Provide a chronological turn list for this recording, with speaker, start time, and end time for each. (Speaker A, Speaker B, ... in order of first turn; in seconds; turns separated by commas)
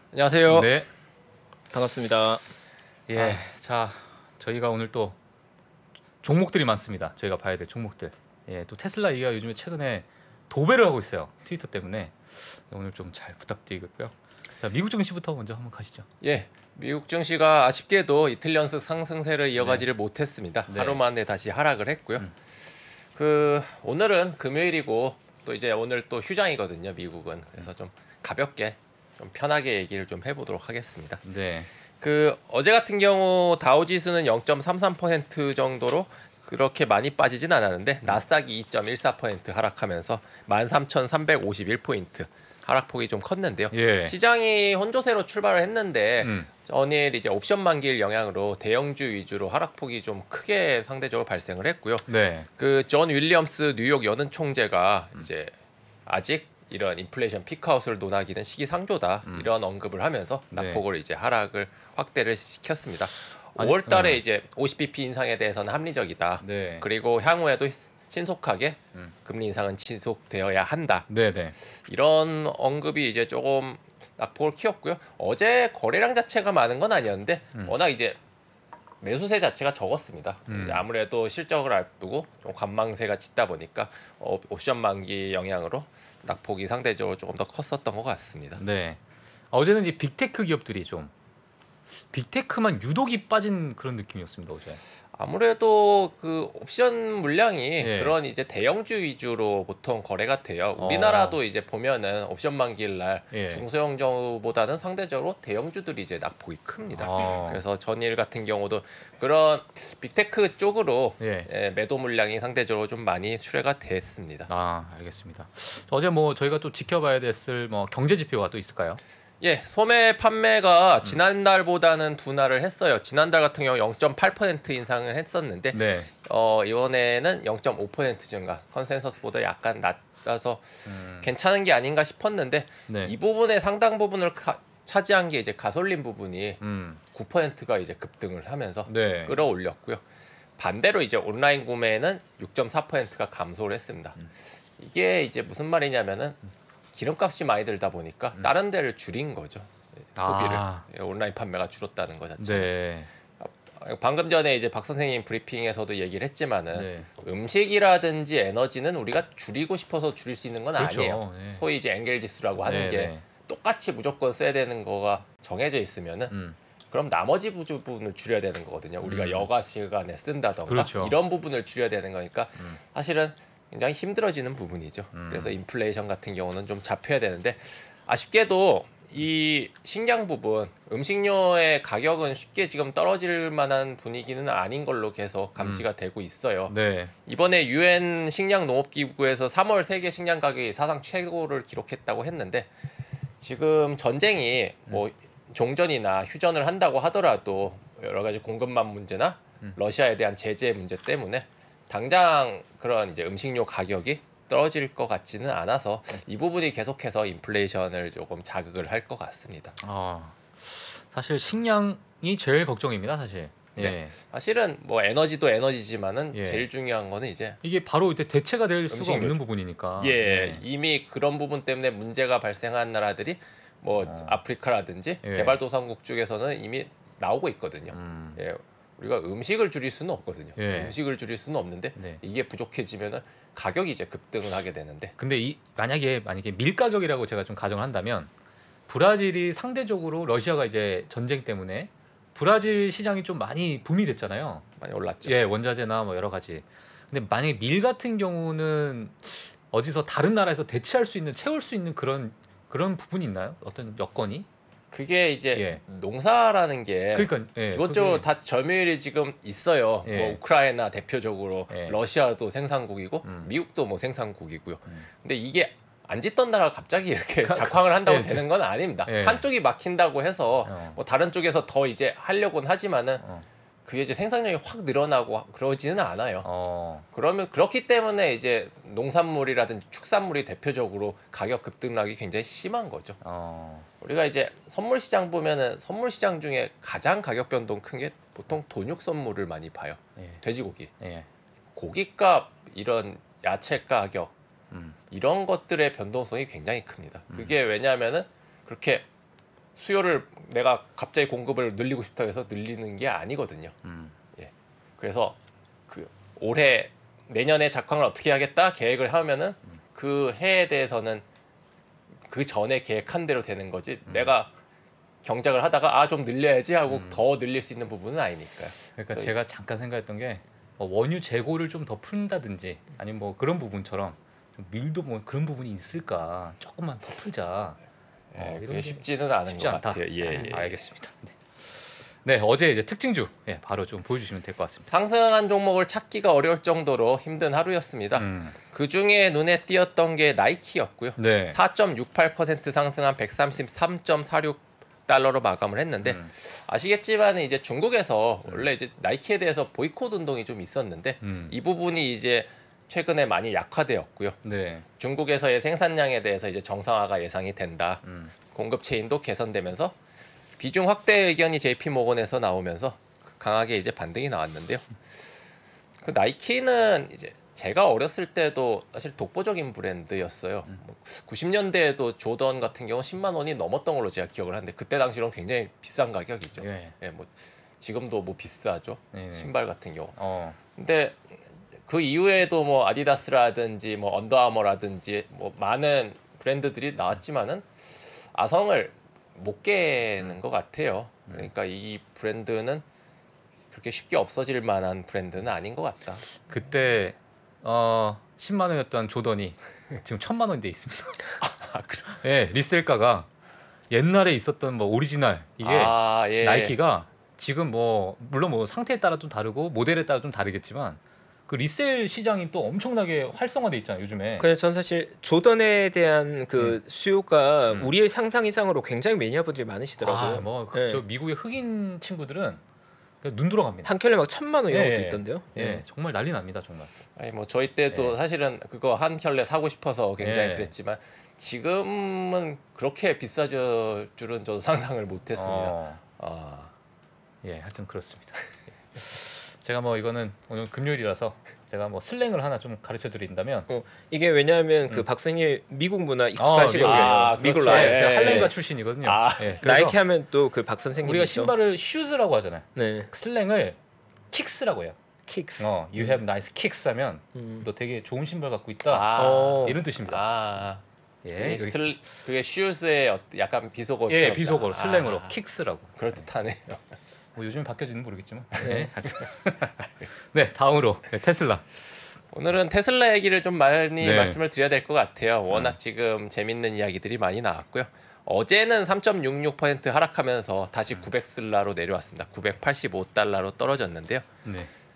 Speaker A: 0.1-0.7, Speaker B: 0.5-0.9, Speaker C: 1.7-2.4, Speaker B: 3.1-5.2, Speaker B: 6.2-16.1, Speaker A: 16.2-22.3, Speaker B: 19.6-19.8, Speaker B: 20.7-21.0, Speaker A: 23.1-31.2, Speaker B: 31.2-31.7, Speaker A: 32.0-55.5, Speaker B: 43.7-44.1, Speaker B: 46.2-46.5, Speaker B: 52.1-52.5, Speaker A: 56.0-71.1, Speaker B: 60.5-60.8, Speaker B: 63.6-64.2, Speaker B: 66.4-66.8, Speaker B: 71.1-71.6, Speaker A: 71.6-78.2, Speaker A: 79.0-88.6, Speaker B: 80.5-80.9, Speaker B: 88.6-89.0, Speaker B: 89.5-91.1, Speaker B: 92.1-94.8, Speaker A: 95.1-114.5, Speaker B: 97.8-98.1, Speaker B: 100.8-101.4, Speaker B: 103.3-103.6, Speaker B: 107.0-107.6, Speaker B: 111.2-111.5, Speaker B: 114.5-119.0, Speaker A: 119.4-136.6, Speaker B: 125.7-126.1, Speaker B: 130.8-131.3, Speaker B: 132.9-133.1, Speaker B: 136.6-137.0, Speaker A: 137.1-140.0, Speaker B: 138.8-139.4, Speaker A: 140.6-146.4, Speaker A: 146.9-152.7, Speaker B: 150.2-150.9, Speaker B: 152.4-153.1, Speaker A: 153.4-166.3, Speaker B: 156.7-157.1, Speaker B: 160.8-161.6, Speaker B: 162.6-163.2, Speaker B: 166.3-166.6, Speaker A: 166.9-186.7, Speaker B: 169.0-169.5, Speaker B: 170.7-171.2, Speaker B: 175.1-175.6, Speaker B: 185.6-185.8, Speaker B: 186.7-187.1, Speaker A: 187.2-192.7, Speaker A: 193.4-209.8, Speaker B: 209.8-214.2, Speaker A: 213.8-217.6, Speaker B: 216.3-216.7, Speaker B: 217.6-220.6, Speaker A: 218.9-219.4, Speaker A: 220.0-235.1, Speaker B: 224.0-224.4, Speaker B: 225.2-225.6, Speaker B: 227.9-228.4, Speaker B: 230.6-231.0, Speaker B: 235.2-238.3, Speaker B: 238.9-244.7, Speaker A: 244.8-245.4, Speaker B: 245.2-254.5, Speaker A: 254.9-273.2, Speaker B: 255.5-255.8, Speaker B: 257.1-258.3, Speaker B: 260.0-260.4, Speaker B: 261.7-262.0, Speaker B: 263.2-263.5, Speaker B: 267.4-268.4, Speaker B: 269.1-269.4, Speaker B: 270.6-271.0, Speaker B: 273.2-273.4, Speaker A: 273.9-276.5, Speaker B: 276.4-277.0, Speaker A: 277.1-283.2, Speaker B: 283.2-283.9, Speaker A: 284.0-290.9, Speaker B: 291.0-291.3, Speaker A: 291.8-294.3, Speaker B: 294.7-294.9, Speaker A: 295.1-299.0, Speaker B: 297.3-297.6, Speaker A: 299.8-303.8, Speaker B: 303.8-304.1, Speaker A: 304.4-305.4, Speaker A: 305.9-311.2, Speaker A: 312.3-314.5, Speaker A: 315.2-319.3, Speaker B: 316.9-317.2, Speaker B: 318.9-327.8, Speaker A: 328.3-330.9, Speaker B: 328.3-334.9, Speaker A: 334.8-354.4, Speaker B: 338.1-338.6, Speaker B: 341.2-341.6, Speaker B: 346.0-346.3, Speaker B: 351.2-351.6, Speaker B: 354.4-354.9, Speaker A: 355.0-359.9, Speaker B: 358.0-358.3, Speaker A: 360.6-364.9, Speaker A: 366.0-380.2, Speaker B: 376.6-376.9, Speaker B: 379.1-379.5, Speaker B: 380.1-380.6, Speaker A: 380.7-381.2, Speaker A: 381.9-392.8, Speaker A: 393.7-396.4, Speaker B: 396.4-401.3, Speaker A: 401.4-402.2, Speaker B: 402.1-403.3, Speaker B: 403.9-414.5, Speaker A: 405.6-406.7, Speaker C: 414.4-421.0, Speaker B: 420.0-422.6, Speaker B: 423.2-423.9, Speaker C: 423.8-425.8, Speaker B: 424.7-426.9, Speaker A: 427.1-436.7, Speaker B: 430.2-430.7, Speaker B: 435.3-436.0, Speaker B: 437.4-438.4, Speaker B: 438.9-443.7, Speaker C: 443.7-448.5, Speaker B: 446.4-450.0, Speaker A: 446.8-449.6, Speaker C: 449.6-451.5, Speaker B: 451.0-453.8, Speaker C: 452.8-453.1, Speaker B: 454.3-455.0, Speaker C: 455.3-456.2, Speaker B: 455.6-460.2, Speaker C: 457.3-457.6, Speaker A: 458.9-460.8, Speaker C: 459.1-459.8, Speaker B: 461.2-461.9, Speaker A: 461.3-465.4, Speaker B: 464.1-466.2, Speaker A: 465.9-466.8, Speaker B: 467.4-471.6, Speaker A: 468.6-469.2, Speaker C: 468.6-468.9, Speaker A: 472.3-484.4, Speaker B: 474.0-474.4, Speaker B: 484.4-484.7